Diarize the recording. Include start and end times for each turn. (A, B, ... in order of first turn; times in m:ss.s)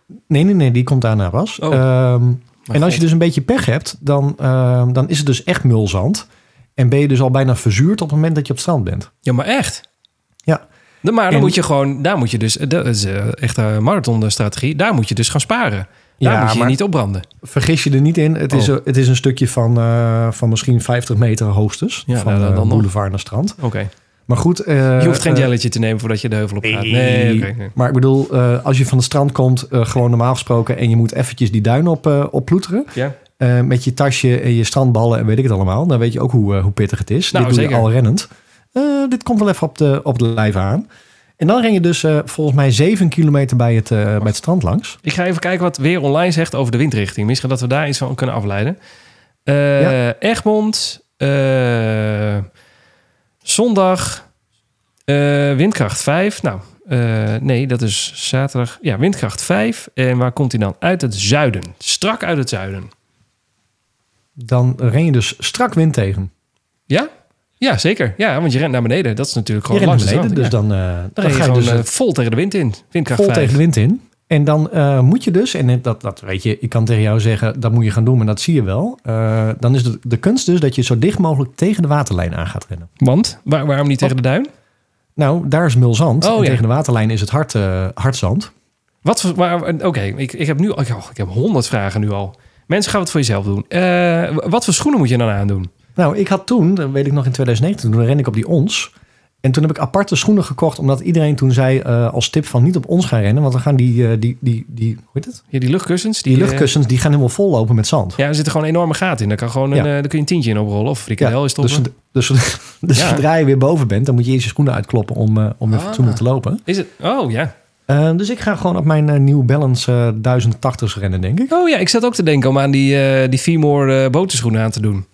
0:00.3-0:06.2 A
0:02.7-0:03.0 B
0:06.8-0:09.1 A
0:09.2-0:09.8 B
0:11.0-0:17.3 B
0:11.3-0:11.6 A
0:16.2-0:16.8 A
0:17.4-0:23.6 A
0:22.1-0:22.9 B
0:23.6-0:23.9 B
0:24.3-0:25.5 A
0:25.0-0:27.7 B
0:26.6-0:40.8 A
0:37.3-0:37.9 B
0:41.4-0:45.0 A
0:45.0-0:48.8 B
0:49.4-0:52.5 B
0:53.4-0:54.2 B
0:55.1-1:02.9 B
1:04.4-1:06.3 A
1:07.6-1:10.5 B
1:09.7-1:11.9 A
1:11.2-1:13.6 B
1:13.1-1:22.9 A
1:23.0-1:24.5 B
1:25.2-1:28.5 A
1:26.2-1:26.6 B
1:29.0-1:35.7 B
1:36.0-1:38.9 A
1:39.4-1:45.4 A
1:45.5-1:46.7 B
1:46.2-1:48.2 A
1:48.2-1:51.9 B
1:51.2-1:56.6 A
1:52.9-1:53.2 B
1:55.7-1:57.5 B
1:57.9-2:01.5 A
2:01.5-2:05.0 B